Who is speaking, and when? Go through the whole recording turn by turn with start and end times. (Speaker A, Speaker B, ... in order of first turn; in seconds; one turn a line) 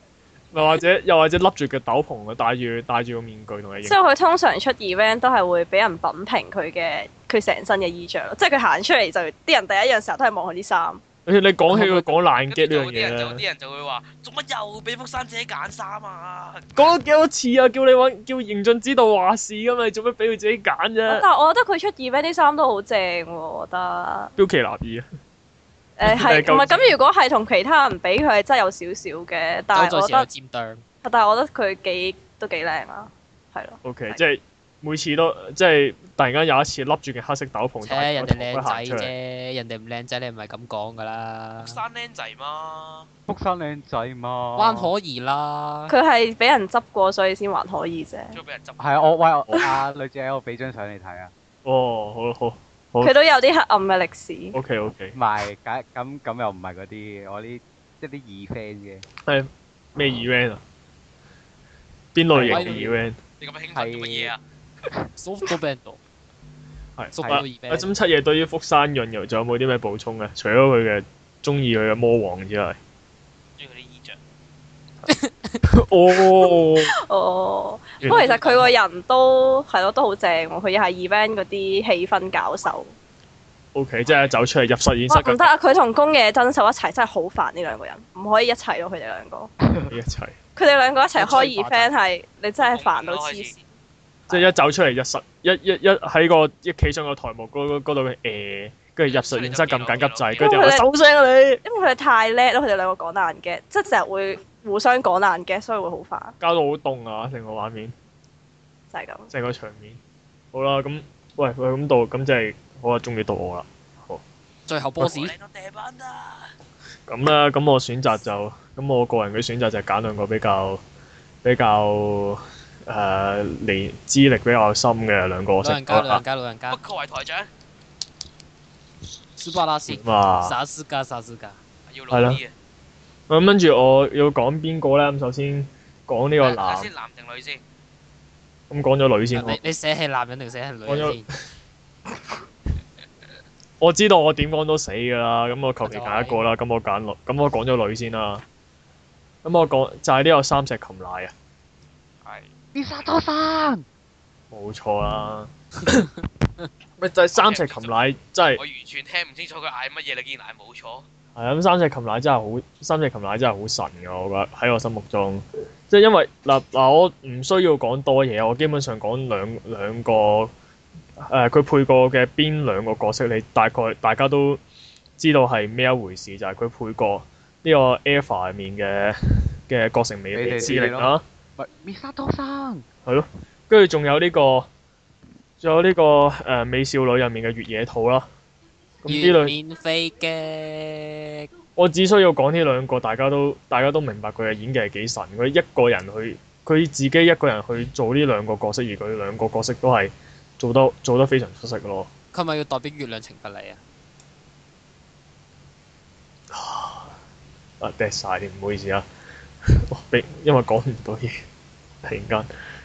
Speaker A: 0.5-4.0
Speaker B: 3.8-11.0
Speaker A: 11.2-13.4
Speaker C: 11.7-12.1
Speaker D: 12.5-16.6
Speaker A: 16.7-21.2
Speaker B: 21.1-24.3
Speaker A: 24.4-25.1
Speaker B: 26.0-30.3
Speaker A: 26.0-26.9
Speaker C: 29.7-30.8
Speaker B: 31.0-34.2
Speaker A: 33.8-39.1
Speaker C: 37.8-41.8
Speaker D: 41.6-43.1
Speaker E: 43.3-44.9
Speaker C: 44.5-45.9
Speaker B: 45.9-48.4
Speaker D: 48.3-49.2
Speaker E: 48.8-51.3
Speaker A: 51.6-53.1
Speaker B: 53.0-54.5
Speaker A: 54.5-55.1
Speaker E: 55.1-59.0
Speaker A: 59.2-60.6
Speaker A: 62.1-63.2
Speaker E: 62.3-62.9
Speaker C: 62.3-63.0
Speaker D: 63.4-64.4
Speaker E: 63.7-64.3
Speaker C: 65.2-66.0
Speaker A: 67.0-72.8
Speaker C: 67.1-67.9
Speaker E: 67.2-67.5
Speaker D: 73.6-74.2
Speaker C: 75.1-75.5
Speaker A: 75.7-76.9
Speaker B: 76.4-82.9
Speaker A: 78.0-78.3
Speaker C: 78.1-78.6
Speaker A: 83.7-85.4
Speaker B: 85.1-89.5
Speaker A: 89.9-90.3
Speaker B: 90.5-93.5
Speaker A: 91.2-91.9
Speaker D: 92.6-93.6
Speaker A: 94.3-101.6
Speaker D: 99.0-100.5
Speaker B: 100.4-100.8
Speaker B: 101.6-106.3
Speaker A: 106.4-107.9
Speaker B: 108.9-109.3
Speaker A: 109.3-110.0
Speaker A: 110.5-114.2
Speaker C: 114.7-115.3
Speaker D: 115.0-116.5
Speaker A: 117.1-120.8
Speaker A: 121.4-126.2
Speaker C: 125.6-126.8
Speaker D: 126.7-127.5
Speaker C: 129.3-131.6
Speaker A: 129.9-130.6
Speaker D: 131.9-132.5
Speaker A: 132.1-132.4
Speaker A: 133.3-136.9
Speaker D: 136.4-137.6
Speaker A: 138.7-139.6
Speaker C: 139.3-141.3
Speaker A: 140.8-141.2
Speaker A: 143.8-148.4
Speaker C: 145.8-146.5
Speaker A: 149.4-151.3
Speaker D: 152.2-152.5
Speaker E: 152.7-153.8
Speaker A: 154.5-156.0
Speaker A: 157.0-158.6
Speaker D: 157.3-161.1
Speaker A: 161.3-170.5
Speaker A: 171.3-174.6
Speaker A: 175.2-181.2
Speaker E: 180.3-182.8
Speaker A: 183.1-184.7
Speaker A: 185.6-188.3
Speaker A: 189.0-189.5
Speaker C: 189.0-191.5
Speaker A: 191.8-202.1
Speaker C: 202.3-203.8
Speaker A: 206.5-207.1
Speaker A: 207.8-209.0
Speaker A: 209.9-211.4
Speaker A: 212.0-212.5